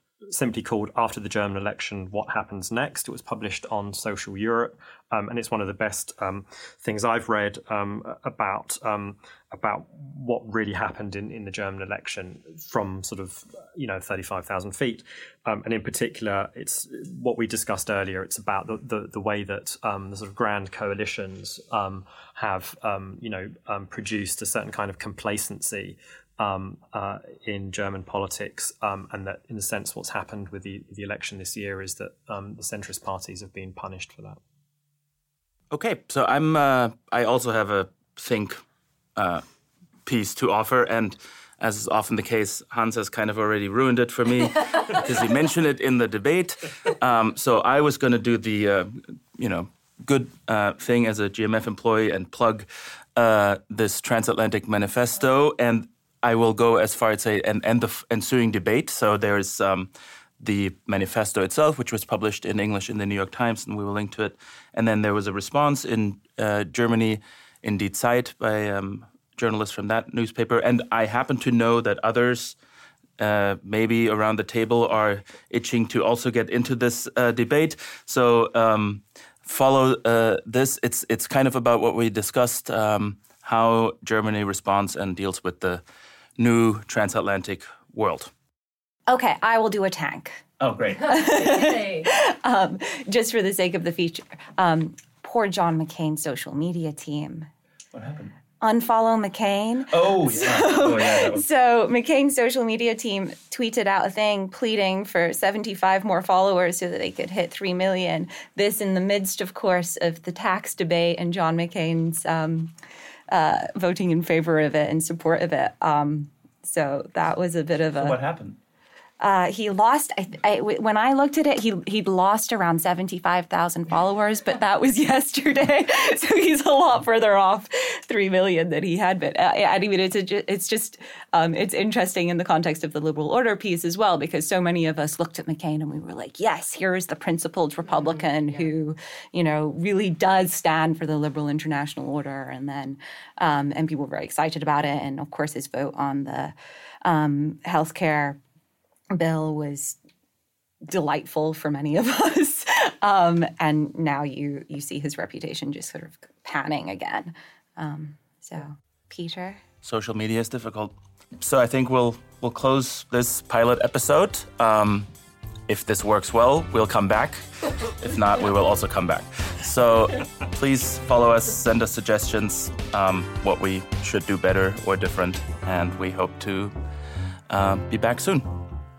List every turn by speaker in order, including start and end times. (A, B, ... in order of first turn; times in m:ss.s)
0:00.3-0:34.4 A
0:35.7-0:38.6 B
0:39.2-0:39.4 B
0:40.1-0:59.9 B
1:00.4-1:12.6 B
1:13.2-1:25.8 B
1:26.4-1:28.3 B
1:29.1-1:30.4 C
1:30.6-1:31.3 B
1:31.0-1:37.5 C
1:37.9-1:38.3 B
1:38.6-1:52.7 C
1:39.9-1:41.4 B
1:53.3-1:58.2 C
1:58.0-1:58.6 B
1:59.2-2:28.4 C
2:29.1-2:30.0 C
2:30.9-2:39.6 C
2:39.8-2:45.1 B
2:45.7-2:56.7 B
2:57.5-2:58.5 B